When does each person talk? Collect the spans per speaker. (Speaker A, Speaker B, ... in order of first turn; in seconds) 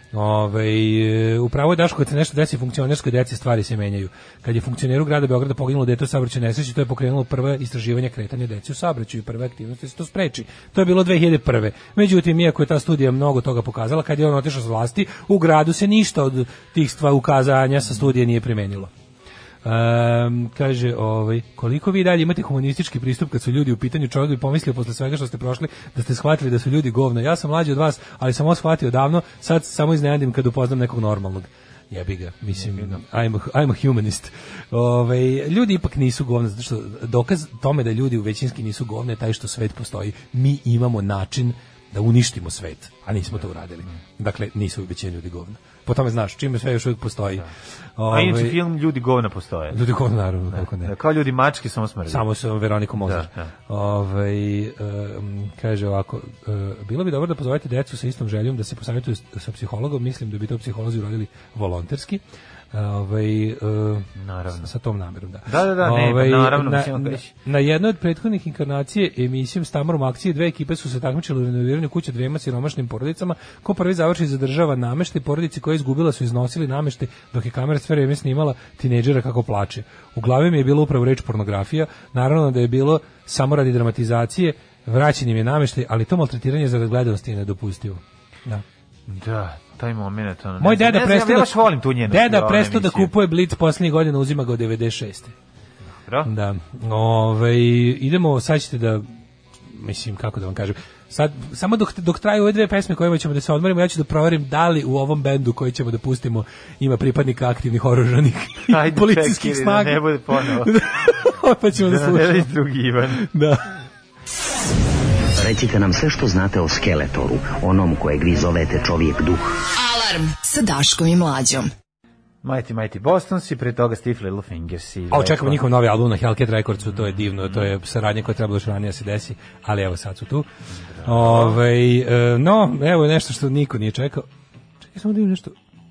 Speaker A: 0.1-18.9, 19.6-47.5, 48.0-48.6, 49.7-50.9, 52.1-62.2, 62.7-64.1, 64.6-88.6, 90.6-95.3, 96.2-99.1, 99.7-112.5, 113.2-113.6, 125.1-130.5, 131.0-134.3, 134.9-135.6
Speaker B: 32.6-33.0, 43.4-44.0, 48.1-49.8, 50.5-52.3, 53.0-53.5, 64.2-64.7, 65.5-67.3, 89.1-93.1, 96.0-96.3, 108.7-110.8, 111.8-113.3, 122.4-125.6, 126.9-127.7, 130.9-131.6
Speaker C: 115.4-119.5
Speaker D: 119.7-121.7